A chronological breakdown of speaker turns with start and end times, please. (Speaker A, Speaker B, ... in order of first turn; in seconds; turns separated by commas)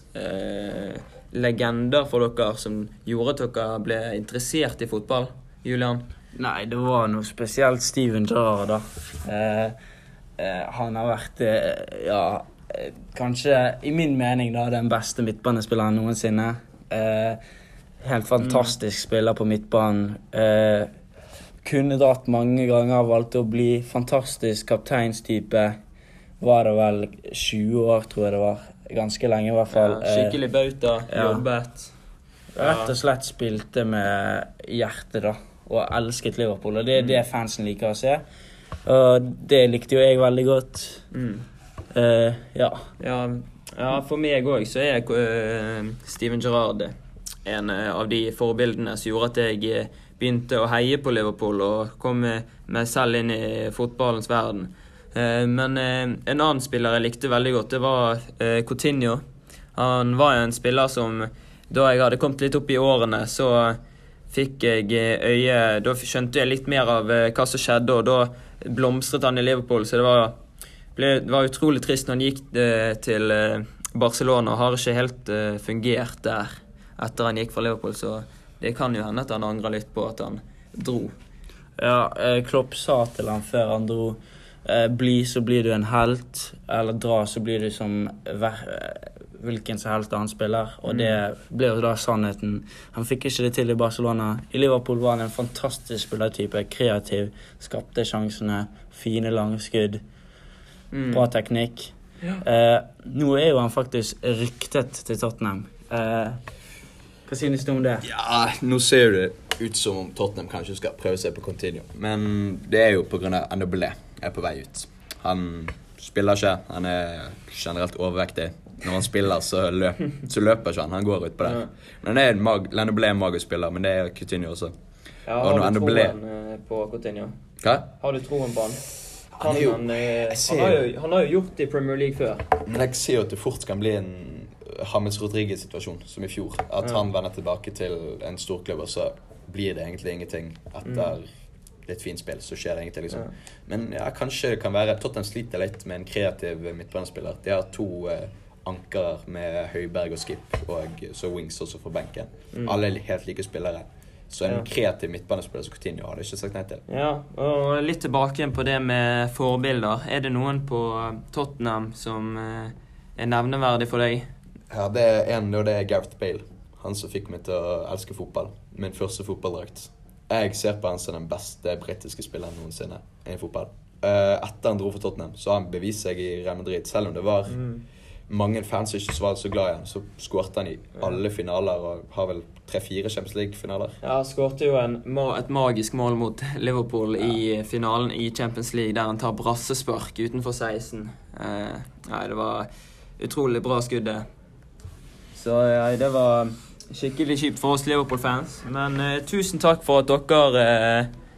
Speaker A: 0.1-6.0, Speaker B: 6.3-9.8, Speaker B: 10.4-17.4, Speaker B: 18.0-20.9, Speaker A: 18.4-18.7, Speaker B: 21.6-25.8, Speaker B: 26.4-30.4, Speaker A: 29.7-31.9, Speaker B: 31.1-31.4, Speaker B: 32.5-38.2, Speaker A: 32.6-32.9, Speaker A: 37.0-37.2, Speaker B: 38.9-41.0, Speaker A: 41.1-41.5, Speaker B: 41.9-42.8, Speaker A: 43.0-46.9, Speaker A: 47.5-59.2, Speaker A: 59.8-63.8, Speaker A: 64.3-70.3, Speaker A: 71.0-81.1, Speaker B: 81.8-100.0, Speaker A: 90.9-91.2, Speaker A: 100.9-101.3, Speaker B: 101.1-106.4, Speaker B: 107.3-108.1, Speaker C: 108.0-124.7, Speaker A: 121.4-121.7, Speaker A: 125.3-127.4, Speaker C: 125.4-126.2, Speaker C: 127.6-127.9, Speaker A: 128.0-128.8, Speaker C: 129.4-130.8, Speaker A: 129.4-132.5, Speaker C: 132.7-141.3, Speaker A: 140.8-141.1, Speaker C: 141.9-156.8, Speaker A: 154.4-154.7, Speaker A: 156.9-164.3, Speaker C: 164.7-177.6, Speaker A: 177.5-177.8, Speaker C: 178.3-184.0, Speaker A: 184.0-192.7, Speaker A: 193.2-194.2, Speaker A: 195.3-201.1